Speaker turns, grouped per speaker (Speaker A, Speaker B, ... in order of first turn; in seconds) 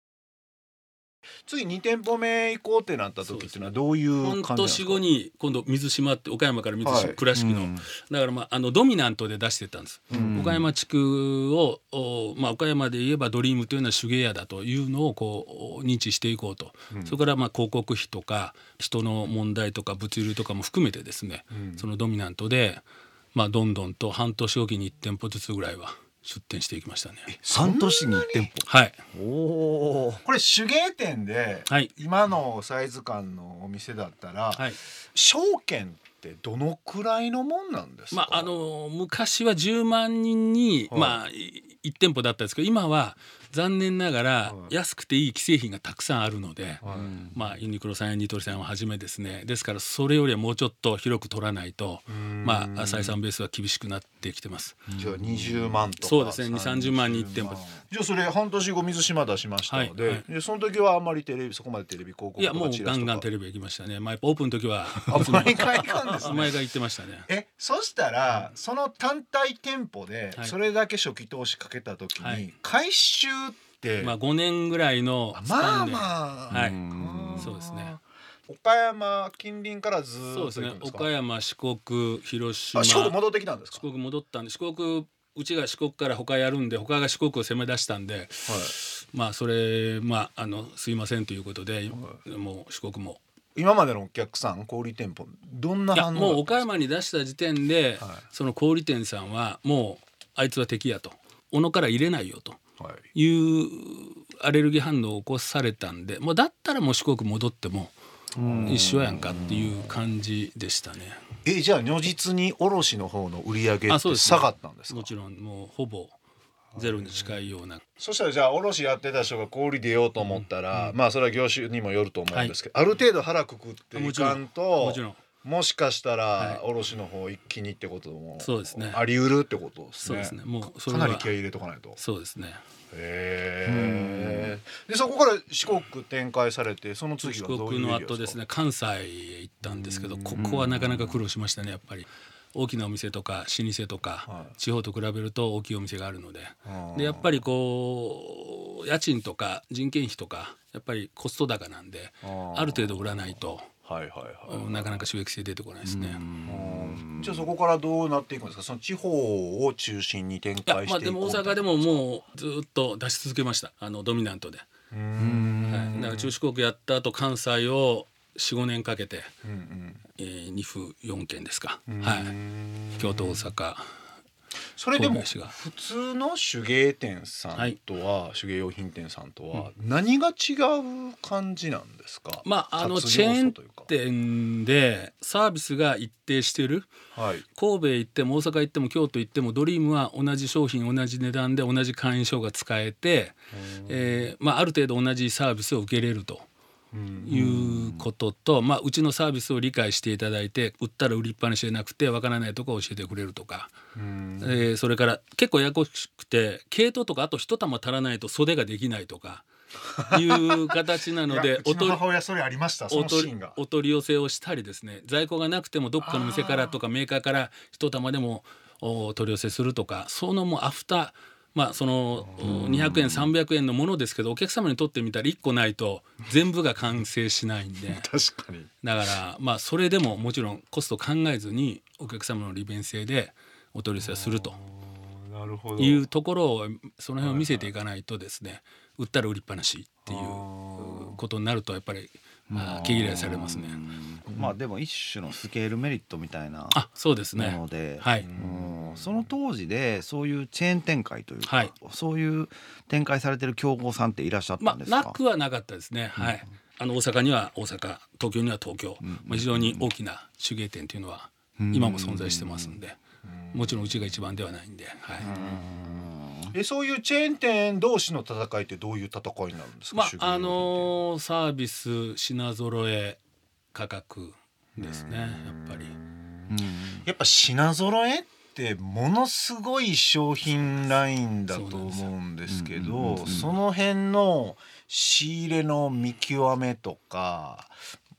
Speaker A: 1.5-5.0, 6.8-7.2, 10.1-10.7, 16.9-17.2, 21.5-21.8, 27.3-28.5, 30.2-38.5, 40.9-41.2, 44.5-44.7, 46.8-47.1, 52.1-53.2, 55.0-63.2, 65.1-66.6, 67.3-74.2, 75.3-81.1, 82.8-83.8, 88.5-88.7, 93.6-96.7, 108.4-109.6, 111.5-115.1, 116.8-117.4, 118.0-132.0, 132.9-138.4, 139.6-141.1, 144.3-144.5, 146.7-147.4, 152.2-155.0, 156.4-162.0, 164.9-166.3, 169.4-170.0, 171.9-173.5, 174.8-183.9, 187.1-187.4, 193.5-194.3, 196.9-197.4, 203.9-204.6, 209.9-210.8, 211.3-213.6, 216.0-216.8, 222.4-223.0, 227.9-228.7, 234.0-236.0, 237.2-237.7, 240.1-241.2, 244.3-244.5, 248.2-249.3, 263.2-264.1, 265.2-270.9, 274.8-287.7
Speaker B: 3.3-22.8, 23.3-27.3, 28.7-29.0, 34.5-34.8, 38.1-54.8, 56.0-57.6, 59.7-60.2, 62.4-67.3, 72.2-72.5, 74.0-76.8, 77.4-77.9, 80.3-83.2, 83.7-93.2, 96.0-102.6, 103.1-107.9, 108.7-111.2, 113.9-116.2, 116.8-117.8, 120.2-120.9, 123.9-125.2, 128.4-129.0, 130.0-131.3, 132.0-132.6, 137.2-153.7, 154.5-156.2, 160.7-164.7, 165.7-169.3, 170.2-172.3, 173.0-173.9, 174.9-175.6, 182.4-186.9, 187.6-196.5, 197.2-203.7, 204.4-209.5, 210.1-212.0, 212.9-228.1, 228.8-234.6, 235.8-243.8, 246.7-248.3, 251.4-251.7, 254.6-263.0, 263.5-265.3, 269.9-273.2, 273.7-275.9, 281.5-282.1
Speaker C: 7.3-7.8, 10.1-10.6, 27.5-30.2, 46.9-47.5, 54.9-55.8, 76.5-77.5, 108.4-109.7, 133.7-134.5, 155.8-157.5, 165.2-165.8, 197.3-198.1, 222.5-223.1, 242.5-246.8, 247.3-255.2, 259.0-259.9, 261.6-262.8, 265.2-266.5, 276.5-277.1, 282.5-283.6